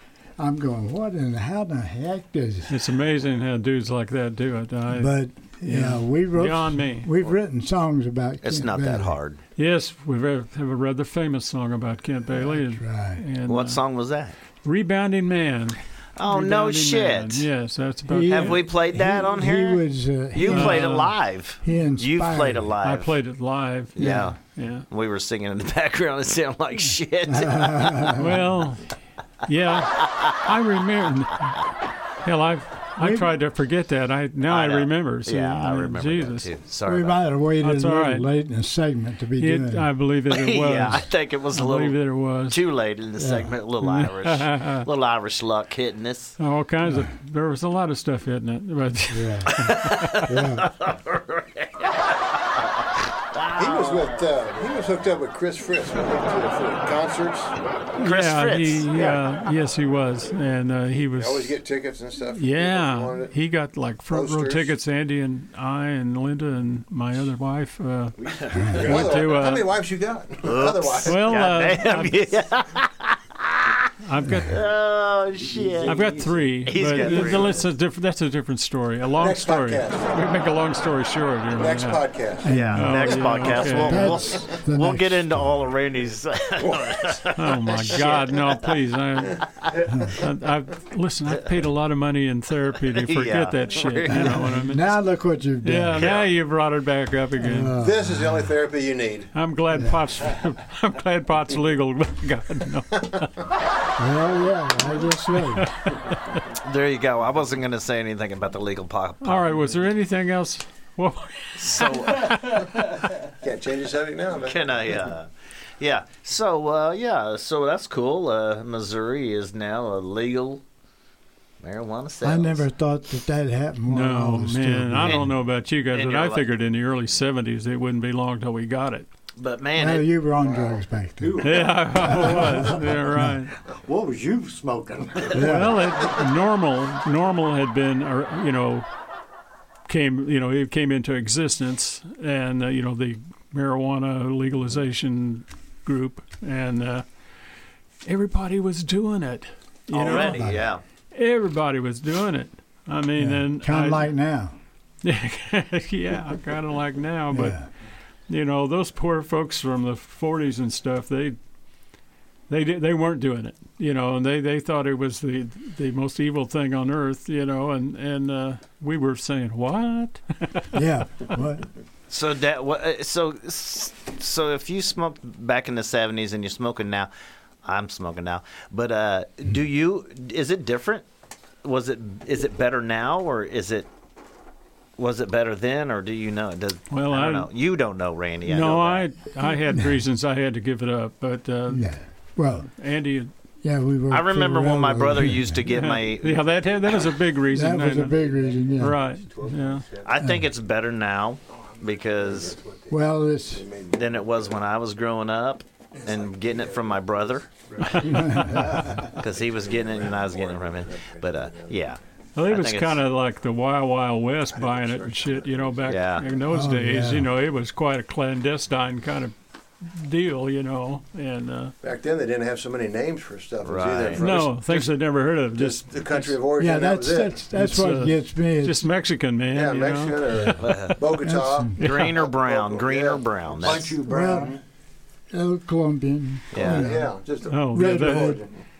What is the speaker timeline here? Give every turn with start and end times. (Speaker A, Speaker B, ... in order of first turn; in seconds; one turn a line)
Speaker A: 0.4-2.8
Speaker B: 2.7-7.1
Speaker A: 4.9-9.2
Speaker C: 8.4-9.4
Speaker B: 9.6-13.8
Speaker A: 12.3-13.2
Speaker C: 13.5-14.4
Speaker B: 14.6-18.6
Speaker C: 16.2-17.5
Speaker A: 18.1-22.7
Speaker C: 18.2-23.2
Speaker B: 20.5-21.1
Speaker B: 22.8-24.9
Speaker C: 23.9-28.3
Speaker A: 24.0-24.3
Speaker A: 27.2-28.4
Speaker B: 28.2-28.9
Speaker B: 29.4-31.6
Speaker B: 32.2-36.5
Speaker A: 33.0-33.4
Speaker C: 34.5-37.2
Speaker A: 36.9-39.9
Speaker B: 37.6-38.3
Speaker B: 39.4-42.6
Speaker C: 40.3-46.4
Speaker A: 43.2-43.5
Speaker B: 43.8-44.9
Speaker B: 46.4-50.3
Speaker A: 49.1-49.6
Speaker C: 49.5-54.3
Speaker A: 50.2-50.7
Speaker D: 53.6-57.6
Speaker B: 58.0-61.6
Speaker C: 58.0-59.1
Speaker D: 61.1-63.3
Speaker B: 62.3-69.7
Speaker D: 64.1-64.8
Speaker D: 68.2-71.4
Speaker A: 68.5-69.0
Speaker C: 70.4-73.9
Speaker B: 71.0-72.2
Speaker B: 74.0-74.6
Speaker C: 74.5-77.7
Speaker D: 75.6-76.3
Speaker B: 75.8-82.0
Speaker D: 77.1-77.6
Speaker D: 79.1-80.2
Speaker D: 81.5-82.5
Speaker A: 82.4-85.6
Speaker C: 82.5-88.7
Speaker B: 82.7-84.2
Speaker D: 86.6-87.2
Speaker B: 87.4-94.9
Speaker A: 89.9-90.1
Speaker C: 92.9-94.4
Speaker A: 94.1-96.1
Speaker B: 95.6-97.8
Speaker C: 96.0-96.3
Speaker A: 97.4-98.5
Speaker D: 97.8-99.3
Speaker B: 99.3-103.3
Speaker A: 99.7-100.0
Speaker A: 104.0-105.8
Speaker B: 105.5-106.4
Speaker C: 106.5-109.6
Speaker B: 109.2-112.6
Speaker C: 111.6-112.7
Speaker D: 113.4-115.0
Speaker C: 114.4-115.3
Speaker C: 115.8-120.6
Speaker C: 121.6-122.7
Speaker A: 122.2-125.3
Speaker B: 123.9-129.1
Speaker C: 125.0-126.5
Speaker C: 129.4-130.1
Speaker A: 129.8-133.4
Speaker D: 130.4-130.8
Speaker E: 131.2-132.5
Speaker B: 131.4-133.5
Speaker E: 133.8-135.4
Speaker A: 135.3-135.9
Speaker B: 135.3-138.9
Speaker B: 139.9-147.1
Speaker B: 148.1-150.5
Speaker C: 149.9-150.8
Speaker A: 150.0-150.6
Speaker B: 151.1-154.1
Speaker A: 153.2-154.6
Speaker B: 155.0-157.6
Speaker A: 157.3-157.7
Speaker B: 158.3-161.4
Speaker B: 162.5-170.7
Speaker A: 170.7-171.7
Speaker C: 172.1-177.1
Speaker C: 177.6-181.1
Speaker C: 181.6-183.9
Speaker C: 185.0-189.1
Speaker B: 186.9-187.5
Speaker B: 188.5-191.9
Speaker A: 191.7-192.7
Speaker B: 192.6-193.3
Speaker A: 193.6-195.7
Speaker C: 194.1-197.0
Speaker B: 195.7-198.2
Speaker A: 197.5-199.0
Speaker B: 198.8-199.9
Speaker D: 199.4-200.1
Speaker C: 200.0-202.6
Speaker A: 200.2-200.4
Speaker D: 201.6-204.6
Speaker A: 202.9-203.7
Speaker C: 203.9-208.3
Speaker D: 206.0-211.8
Speaker A: 208.0-209.0
Speaker C: 209.2-213.0
Speaker B: 212.3-221.7
Speaker D: 214.5-215.9
Speaker C: 215.9-216.3
Speaker A: 216.5-217.3
Speaker D: 221.8-227.4
Speaker C: 223.6-224.3
Speaker B: 224.2-226.4
Speaker A: 226.6-228.8
Speaker B: 227.5-230.9
Speaker D: 229.5-234.4
Speaker C: 230.6-231.0
Speaker A: 231.2-231.8
Speaker B: 231.8-232.1
Speaker C: 231.8-233.9
Speaker E: 233.6-234.6
Speaker A: 234.1-234.6
Speaker A: 235.3-237.1
Speaker C: 236.5-236.9
Speaker D: 236.5-238.5
Speaker B: 237.5-238.4
Speaker A: 237.7-238.4